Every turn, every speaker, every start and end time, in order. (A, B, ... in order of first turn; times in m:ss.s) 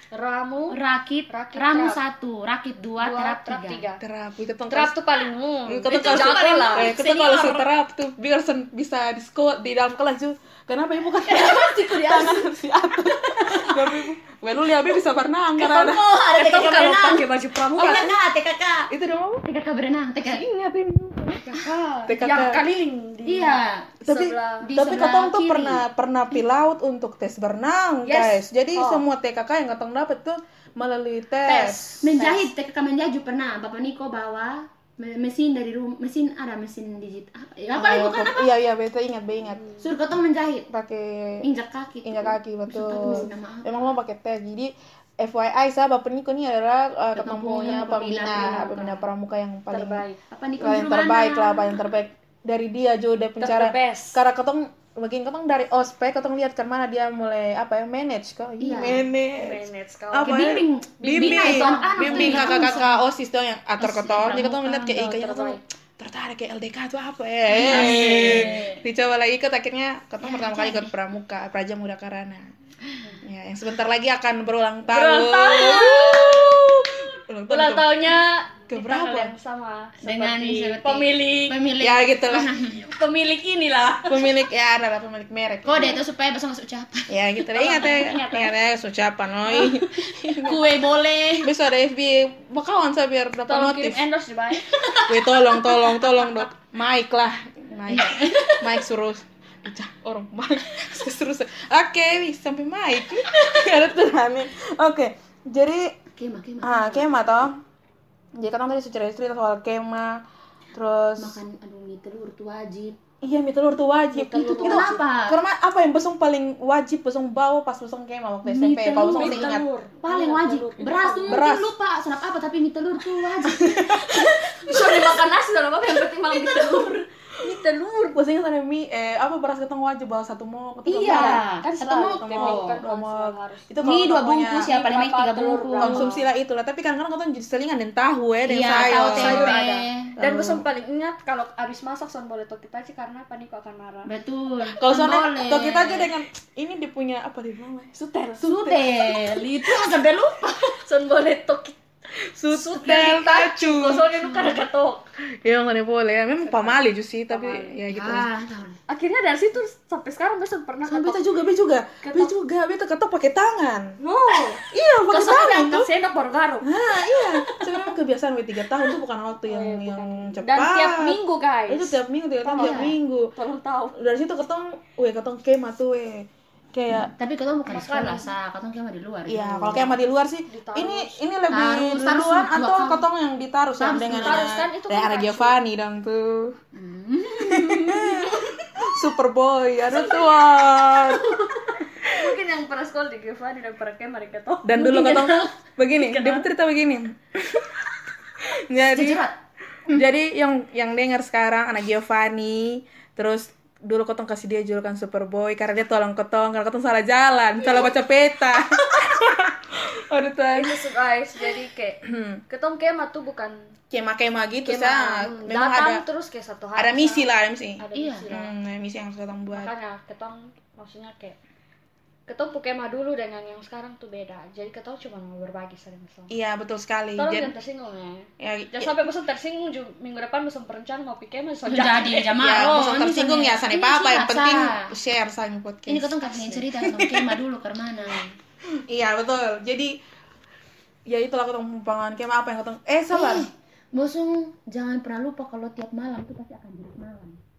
0:00.1-0:02.0 A
0:00.7-0:03.8 B
0:03.0-0:04.0 A
0:04.0-0:05.0 C
0:04.7-0:07.0 A
0:05.7-0:16.0 C
0:05.9-0:07.7 B
0:11.2-0:12.4 B
0:13.1-0:13.9 B
0:15.6-0:18.9 B
0:16.2-0:18.2 A
0:18.9-0:19.5 C
0:19.5-0:20.4 B
0:20.2-0:24.7 A
0:22.0-0:22.6 C
0:23.2-0:24.0 B
0:24.0-0:32.1 C
0:24.6-0:25.8 B
0:28.0-0:29.0 A
0:31.5-0:38.5 B
0:31.5-0:32.5 A
0:37.8-0:39.7 C
0:39.8-0:40.7 B
0:40.7-0:41.5 C
0:41.4-0:43.9 B
0:42.0-0:50.0 C
0:47.2-0:49.1 B
0:48.2-0:48.9 A
0:49.7-0:50.2 A
0:50.3-0:51.8 B
0:50.6-1:12.5 C
0:53.4-0:54.2 A
0:58.6-0:59.0 B
0:59.3-1:02.9 A
1:00.2-1:03.0 B
1:03.8-1:05.0 B
1:04.7-1:05.6 A
1:07.5-1:08.8 B
1:07.6-1:08.7 A
1:10.2-1:10.9 B
1:13.2-1:19.3 C
1:14.9-1:16.8 A
1:17.5-1:21.6 A
1:20.0-1:22.9 B
1:21.8-1:22.5 C
1:22.8-1:24.3 A
1:24.1-1:26.0 C
1:25.6-1:28.5 B
1:27.1-1:30.6 C
1:27.6-1:28.4 A
1:29.6-1:31.5 B
1:31.4-1:34.1 C
1:33.5-1:36.4 A
1:34.6-1:35.3 B
1:35.1-1:46.0 C
1:37.9-1:38.8 B
1:46.2-1:47.2 B
1:46.6-1:47.6 C
1:48.4-1:50.2 C
1:50.7-1:51.4 C
1:51.2-1:53.0 B
1:53.2-1:59.6 C
1:54.1-1:55.0 A
1:54.6-1:55.4 B
1:58.4-2:04.3 B
1:59.0-2:01.4 A
2:01.3-2:01.7 C
2:03.4-2:04.5 C
2:04.1-2:08.2 A
2:08.1-2:11.4 C
2:10.9-2:12.8 B
2:11.0-2:13.8 A
2:12.2-2:14.7 C
2:13.8-2:16.2 B
2:14.6-2:16.1 A
2:15.8-2:19.6 C
2:18.4-2:20.1 B
2:18.7-2:24.1 A
2:20.2-2:20.6 C
2:24.1-2:26.1 B
2:24.6-2:29.2 C
2:28.4-2:30.8 B
2:30.5-2:31.8 A
2:32.3-2:34.1 C
2:32.5-2:35.1 A
2:33.9-2:34.6 B
2:35.4-2:38.3 C
2:36.4-2:37.8 A
2:37.9-2:38.8 B
2:38.9-2:41.2 A
2:40.9-2:44.0 C
2:42.0-2:42.3 A
2:44.0-2:47.9 A
2:44.6-2:45.9 C
2:46.6-2:53.3 C
2:49.5-2:54.0 A
2:52.6-2:53.0 B
2:54.0-2:57.1 C
2:56.9-3:00.0 B
2:57.7-2:58.3 A
2:59.3-3:06.6 C
3:00.5-3:01.2 A
3:01.5-3:03.1 B
3:03.8-3:04.5 B
3:04.2-3:05.6 A
3:06.7-3:08.5 B
3:07.4-3:11.4 C
3:09.9-3:10.3 A
3:12.0-3:16.5 A
3:12.0-3:12.3 C
3:14.6-3:17.8 C
3:15.0-3:15.4 B
3:18.4-3:19.2 C
3:18.9-3:19.4 B
3:19.9-3:30.8 C
3:30.6-3:33.7 A
3:32.0-3:32.4 C
3:33.9-3:36.0 C
3:34.6-3:38.5 A
3:36.8-3:39.7 C
3:38.0-3:38.3 B
3:39.5-3:41.4 A
3:42.3-3:46.3 A
3:46.3-3:47.6 C
3:47.2-3:52.3 A
3:48.4-3:49.0 C
3:51.7-3:54.9 B
3:52.4-3:57.4 C
3:55.9-3:58.4 B
3:58.7-4:00.0 C
4:01.1-4:03.5 C
4:03.1-4:07.4 B